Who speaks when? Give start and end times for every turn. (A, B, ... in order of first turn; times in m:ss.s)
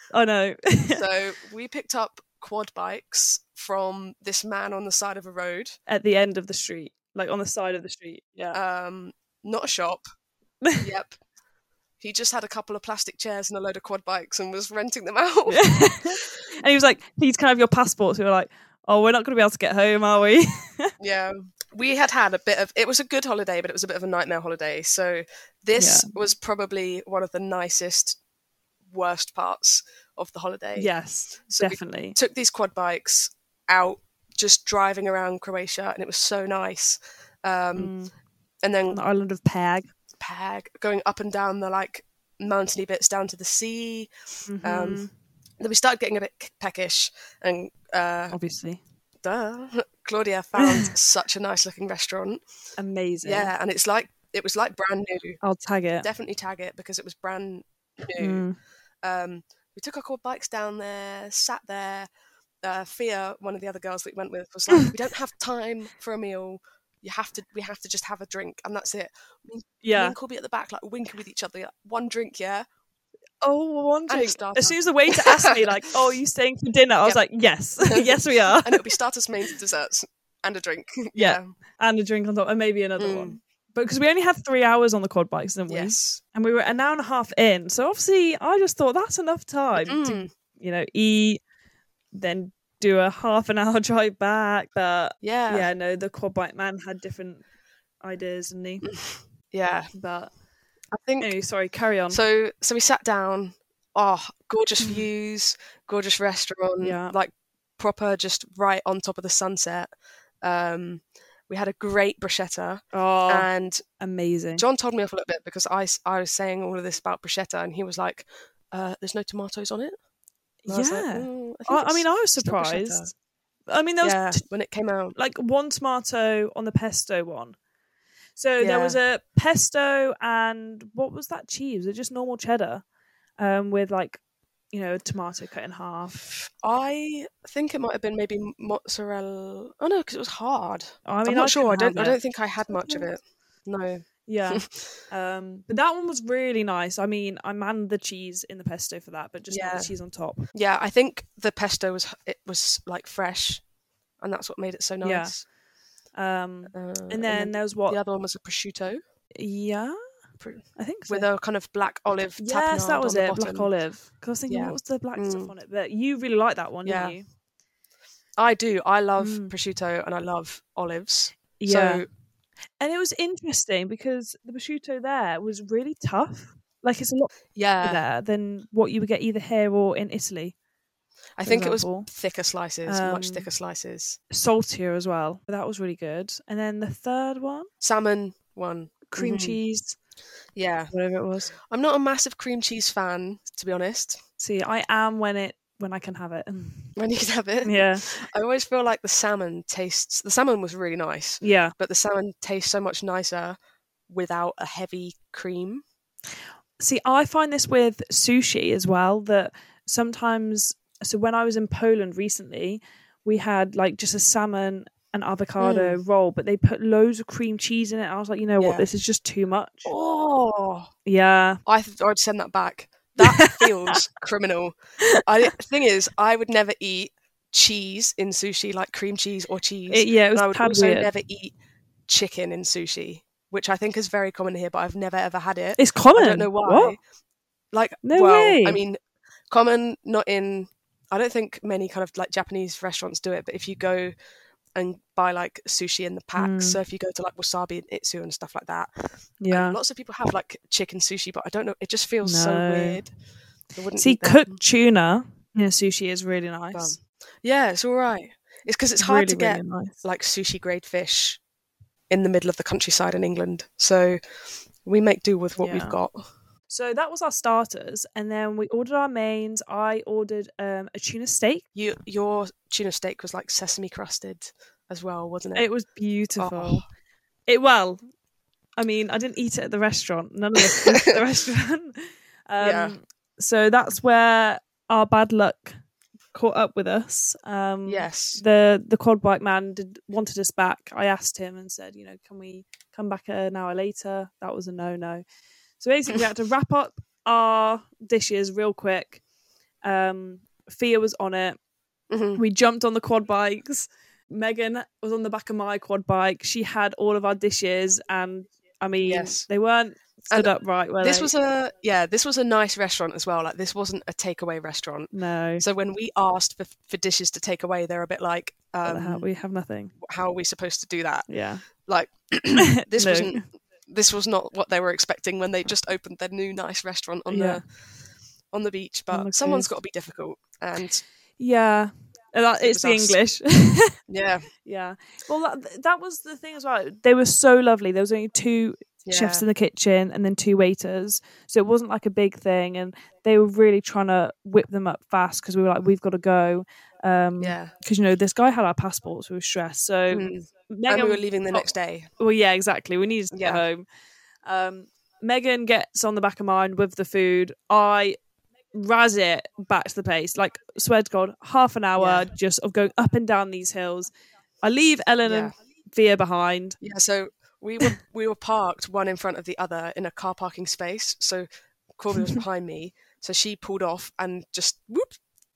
0:00.1-0:01.0 A
0:00.9-0:05.8 B
0:05.9-0:08.6 A
0:08.5-0:10.0 B
0:10.8-0:11.2 B
0:12.0-0:16.2 B
0:15.4-0:20.9 A
0:21.0-0:28.2 B
0:25.8-0:26.1 A
0:28.9-0:30.9 B
0:30.8-0:32.2 A
0:31.5-0:37.9 B
0:37.8-0:38.1 A
0:38.6-0:39.0 B
0:38.9-0:39.9 A
0:40.2-0:44.1 B
0:44.4-0:45.1 A
0:44.6-0:45.1 B
0:45.6-0:48.3 B
0:48.3-0:48.8 A
0:49.2-0:52.4 B
0:50.6-0:50.9 A
0:52.8-0:53.5 A
0:53.2-0:55.4 B
0:55.4-0:56.1 A
0:56.0-0:58.4 B
0:58.2-0:58.6 A
0:59.0-1:02.1 B
1:02.6-1:12.6 B
1:09.8-1:10.2 A
1:13.4-1:18.9 A
1:14.1-1:15.7 B
1:17.8-1:21.5 B
1:21.1-1:31.4 A
1:23.0-1:23.4 B
1:25.7-1:26.2 B
1:29.8-1:30.3 B
1:32.1-1:37.4 A
1:35.2-1:35.7 B
1:38.0-1:38.9 A
1:38.8-1:39.9 B
1:39.9-1:40.3 A
1:40.9-1:41.3 B
1:41.2-1:42.2 A
1:42.1-1:53.8 B
1:44.8-1:45.1 A
1:46.8-1:47.2 A
1:52.9-1:54.6 A
1:54.6-2:00.0 B
2:00.6-2:03.1 A
2:00.7-2:03.1 B
2:03.7-2:04.4 A
2:04.0-2:05.2 B
2:05.1-2:07.6 A
2:08.4-2:12.8 A
2:08.6-2:09.0 B
2:13.4-2:14.2 A
2:14.7-2:16.2 A
2:16.3-2:24.9 B
2:21.1-2:23.1 A
2:24.2-2:30.4 A
2:29.5-2:29.9 B
2:30.5-2:33.6 B
2:34.2-2:35.4 B
2:35.0-2:35.3 A
2:36.1-2:38.0 A
2:36.7-2:39.0 B
2:39.4-2:40.0 A
2:40.4-2:43.7 B
2:40.8-2:41.3 A
2:42.4-2:47.2 A
2:44.5-2:45.5 B
2:46.8-2:47.2 B
2:48.4-2:52.1 B
2:49.2-2:49.5 A
2:51.6-2:52.0 A
2:52.8-3:00.5 A
2:57.5-2:58.0 B
3:01.4-3:04.2 B
3:01.4-3:02.1 A
3:02.9-3:03.5 A
3:04.3-3:07.7 A
3:07.8-3:09.6 B
3:09.1-3:10.0 A
3:10.6-3:10.9 B
3:10.9-3:11.5 A
3:11.5-3:14.2 B
3:14.4-3:16.9 A
3:17.0-3:23.6 B
3:17.6-3:18.1 A
3:21.4-3:21.7 A
3:24.1-3:25.8 B
3:26.8-3:39.9 A
3:35.6-3:36.0 B
3:38.6-3:38.8 B
3:39.8-3:40.9 B
3:41.1-3:41.6 A
3:41.7-3:51.6 B
3:43.2-3:44.0 A
3:49.9-3:51.1 A
3:52.1-3:57.0 B
3:55.8-3:57.0 A
3:57.7-3:59.0 B
3:58.0-3:58.8 A
3:59.5-4:04.1 B
4:04.7-4:08.9 B
4:06.4-4:06.8 A
4:09.4-4:09.8 A
4:09.5-4:13.1 B
4:12.2-4:13.0 A
4:13.7-4:14.6 B
4:14.0-4:17.0 A
4:16.7-4:21.4 B
4:19.0-4:20.0 A
4:22.1-4:24.2 B
4:24.8-4:26.2 B
4:25.6-4:26.0 A
4:26.7-4:31.6 A
4:31.7-4:35.7 B
4:35.6-4:36.8 A
4:36.4-4:36.8 B
4:37.5-4:38.0 A
4:38.8-4:45.8 A
4:40.8-4:41.2 B
4:42.6-4:43.0 B
4:46.3-4:55.2 A
4:47.8-4:48.4 B
4:55.8-4:59.2 A
4:59.8-5:01.6 A
5:02.1-5:02.4 B
5:02.4-5:11.3 A
5:09.0-5:09.4 B
5:10.3-5:19.2 B
5:15.1-5:15.6 A
5:18.8-5:19.9 A
5:20.0-5:27.7 B
5:21.3-5:21.6 A
5:22.6-5:23.4 A
5:27.3-5:27.6 A
5:28.5-5:31.0 B
5:29.1-5:29.7 A
5:31.4-5:34.0 A
5:32.6-5:33.2 B
5:34.1-5:34.5 B
5:34.6-5:53.8 A
5:39.1-5:39.4 B
5:47.4-5:47.7 B
5:50.1-5:52.1 B
5:53.3-5:53.6 B
5:54.4-5:58.2 A
5:58.7-6:04.1 A
6:02.0-6:02.3 B
6:04.6-6:06.8 A
6:05.2-6:05.5 B
6:06.8-6:15.2 B